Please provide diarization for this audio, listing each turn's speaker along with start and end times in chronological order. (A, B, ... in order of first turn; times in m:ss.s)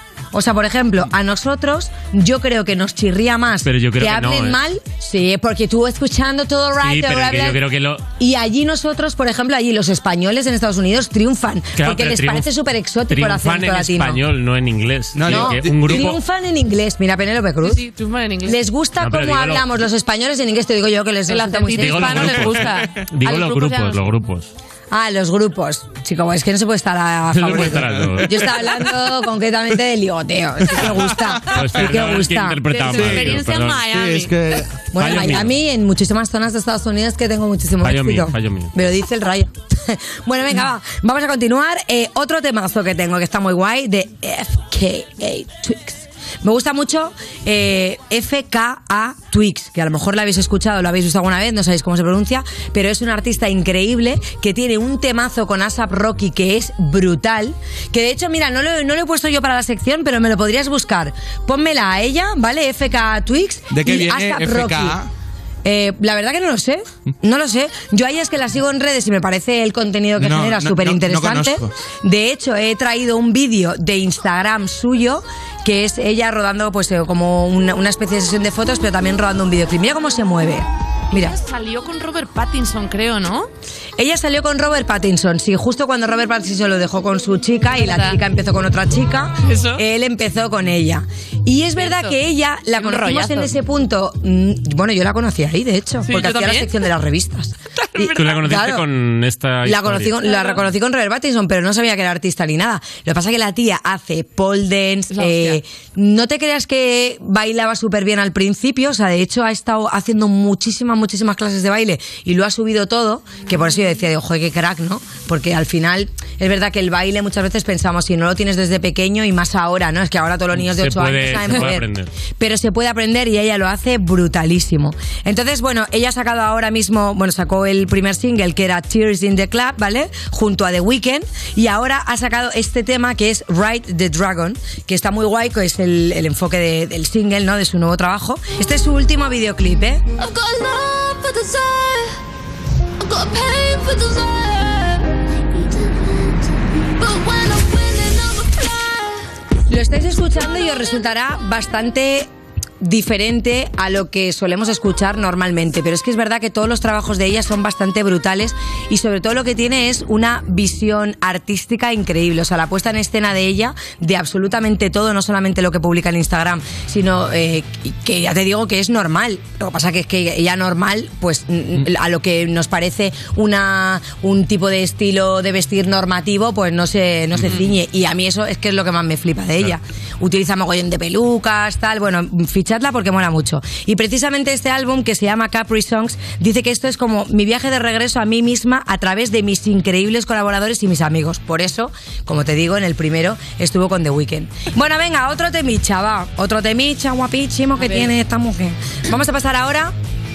0:00.3-0:07.6 A
0:03.6-0:04.6 B
0:06.8-0:08.0 B
0:08.2-0:14.2 A
0:11.8-0:12.5 B
0:13.1-0:16.2 B
0:15.2-0:15.9 C
0:15.3-0:17.8 A
0:17.6-0:18.6 D
0:18.4-0:22.5 A
0:19.0-0:19.7 B
0:21.3-0:24.0 D
0:21.8-0:24.5 B
0:24.9-0:32.7 A
0:27.4-0:28.4 B
0:27.8-0:28.2 C
0:30.8-0:31.4 C
0:31.6-0:34.1 B
0:32.7-0:34.3 D
0:32.9-0:34.7 C
0:34.9-1:05.0 A
0:35.0-0:35.5 B
0:37.8-0:38.7 B
1:03.7-1:05.1 C
1:05.6-1:21.4 A
1:10.2-1:11.7 C
1:21.1-1:23.5 D
1:24.0-1:38.8 A
1:27.7-1:28.2 D
1:29.5-1:29.8 D
1:31.8-1:32.2 D
1:32.7-1:33.5 D
1:36.1-1:36.7 D
1:37.8-1:38.4 D
1:38.2-1:40.3 B
1:39.6-2:01.8 A
1:40.2-1:40.6 D
1:45.1-1:45.6 D
2:00.6-2:02.1 B
2:02.4-2:20.0 A
2:20.2-2:22.1 E
2:23.0-2:26.4 E
2:27.0-2:29.1 E
2:29.7-2:32.3 A
2:32.8-3:19.9 A
3:17.8-3:18.1 D